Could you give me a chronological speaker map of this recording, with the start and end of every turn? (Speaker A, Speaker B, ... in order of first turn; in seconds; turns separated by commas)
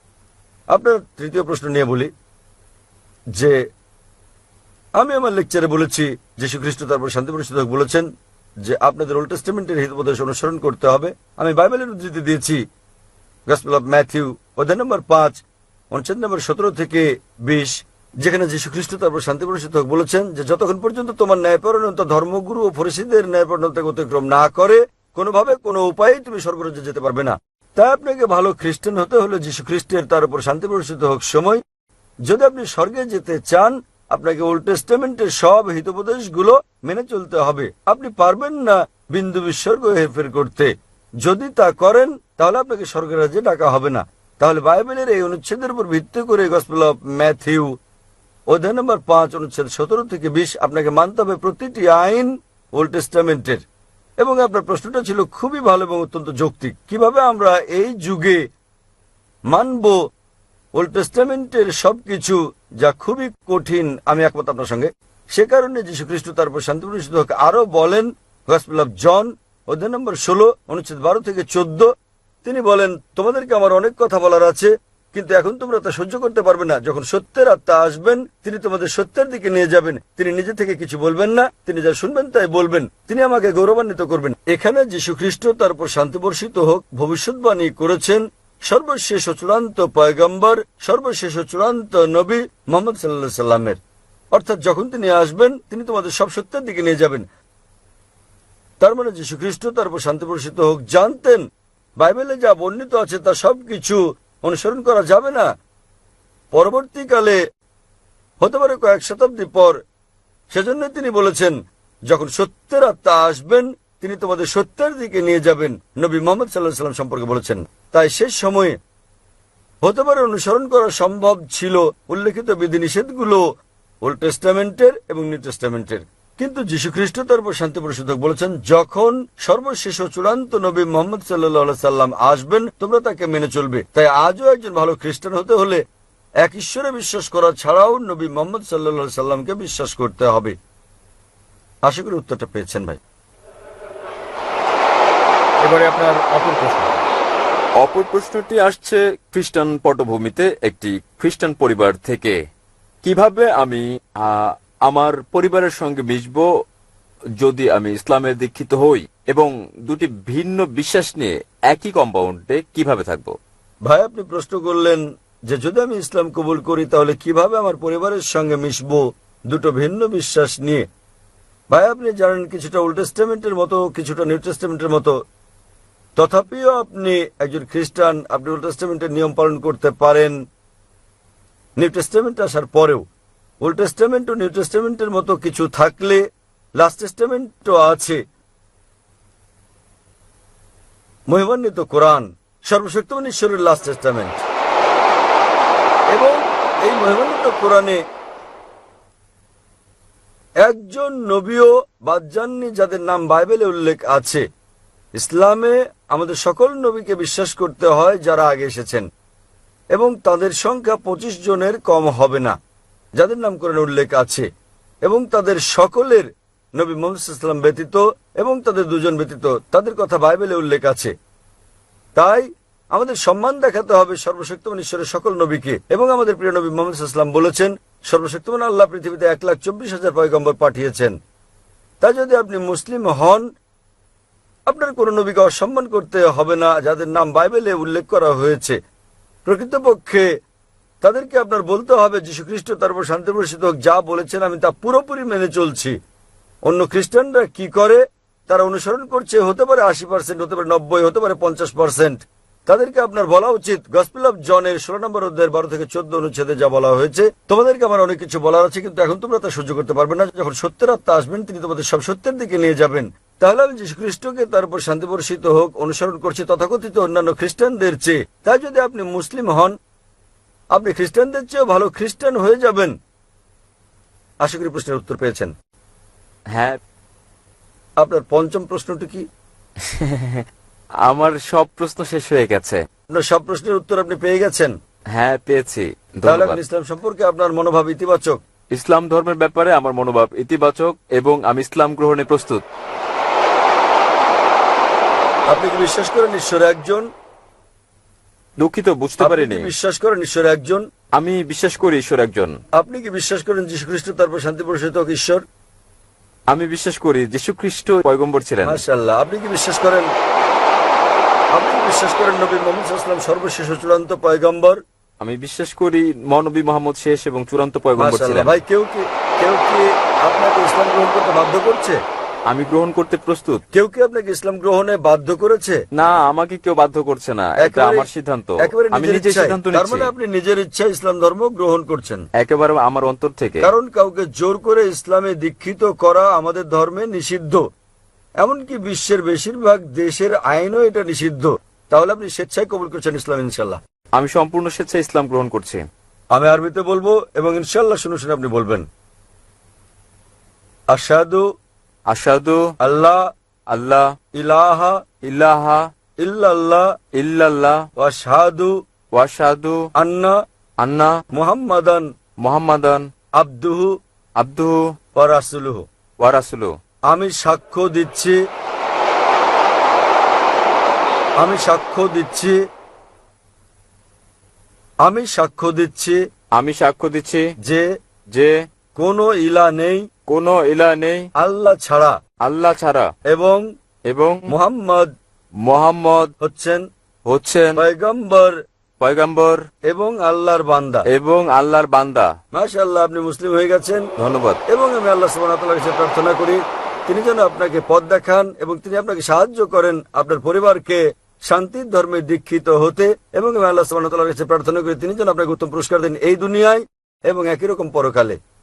Speaker A: 0.7-2.1, Speaker A: 5.0-8.1, Speaker A: 8.7-12.6, Speaker A: 13.5-15.4, Speaker A: 15.9-31.6, Speaker A: 32.3-40.7, Speaker A: 41.2-47.7, Speaker A: 48.5-53.6, Speaker A: 54.2-58.4, Speaker A: 59.5-60.0, Speaker A: 60.8-71.9, Speaker A: 72.4-93.8, Speaker A: 94.3-97.2, Speaker A: 98.8-101.4, Speaker A: 102.0-105.5, Speaker A: 106.5-107.4, Speaker A: 108.4-109.8, Speaker A: 110.5-111.6, Speaker A: 112.1-118.8, Speaker A: 119.8-123.4, Speaker A: 124.0-135.8, Speaker A: 136.4-140.6, Speaker A: 141.9-143.0, Speaker B: 147.8-152.4, Speaker B: 153.0-156.4, Speaker B: 157.4-163.3, Speaker A: 163.9-170.8, Speaker A: 171.7-175.2, Speaker A: 176.2-180.4, Speaker A: 181.8-183.0, Speaker A: 183.6-186.2, Speaker A: 186.8-188.2, Speaker A: 191.3-194.4, Speaker A: 196.1-198.0, Speaker A: 200.6-204.4, Speaker A: 205.2-209.1, Speaker A: 209.9-212.6, Speaker A: 213.2-214.5, Speaker A: 215.1-221.1, Speaker A: 222.2-231.2, Speaker A: 232.0-233.5, Speaker A: 234.7-238.8, Speaker A: 239.4-240.3, Speaker A: 241.0-245.9, Speaker A: 246.7-269.8, Speaker A: 270.7-272.9, Speaker A: 274.4-275.5, Speaker A: 278.0-279.2, Speaker B: 279.9-280.4, Speaker B: 281.1-282.8, Speaker A: 283.1-284.7, Speaker B: 285.2-286.6, Speaker A: 286.2-288.4, Speaker B: 288.8-292.6, Speaker A: 295.5-297.1, Speaker B: 298.6-299.7, Speaker A: 299.2-300.8, Speaker B: 301.2-302.6, Speaker A: 302.8-305.4, Speaker B: 306.5-308.8, Speaker A: 308.6-310.1, Speaker A: 311.6-314.8, Speaker B: 315.2-318.6, Speaker A: 318.0-322.0, Speaker B: 322.5-323.6, Speaker A: 323.7-325.8, Speaker B: 326.0-330.1, Speaker A: 327.6-328.1, Speaker A: 328.6-332.2, Speaker B: 332.4-333.7, Speaker A: 333.6-337.6, Speaker A: 338.4-343.8, Speaker B: 344.2-345.8, Speaker A: 346.3-348.9, Speaker A: 350.9-351.4, Speaker B: 352.1-352.6, Speaker A: 352.8-353.2, Speaker B: 353.7-354.1, Speaker A: 354.4-355.0, Speaker B: 355.3-355.8, Speaker A: 356.2-356.9, Speaker B: 357.2-357.8, Speaker A: 358.0-358.7, Speaker B: 359.2-359.8, Speaker A: 360.0-360.4, Speaker B: 360.8-361.1, Speaker A: 361.3-362.1, Speaker B: 362.4-363.1, Speaker A: 363.4-363.9, Speaker B: 364.4-364.8, Speaker A: 365.2-365.8, Speaker B: 366.2-366.7, Speaker A: 367.1-368.4, Speaker A: 371.4-372.6, Speaker A: 375.1-376.2, Speaker B: 376.6-377.4, Speaker A: 379.0-380.0, Speaker B: 380.3-381.2, Speaker A: 381.4-382.1, Speaker B: 382.4-383.1, Speaker A: 383.3-383.6, Speaker B: 384.1-384.5, Speaker A: 384.5-385.1, Speaker B: 385.7-386.3, Speaker A: 386.4-386.8, Speaker B: 387.3-387.8, Speaker A: 387.8-388.6, Speaker B: 389.0-389.6, Speaker A: 389.9-391.1, Speaker B: 391.1-392.3, Speaker A: 392.5-394.1, Speaker B: 394.2-394.6, Speaker A: 394.7-408.4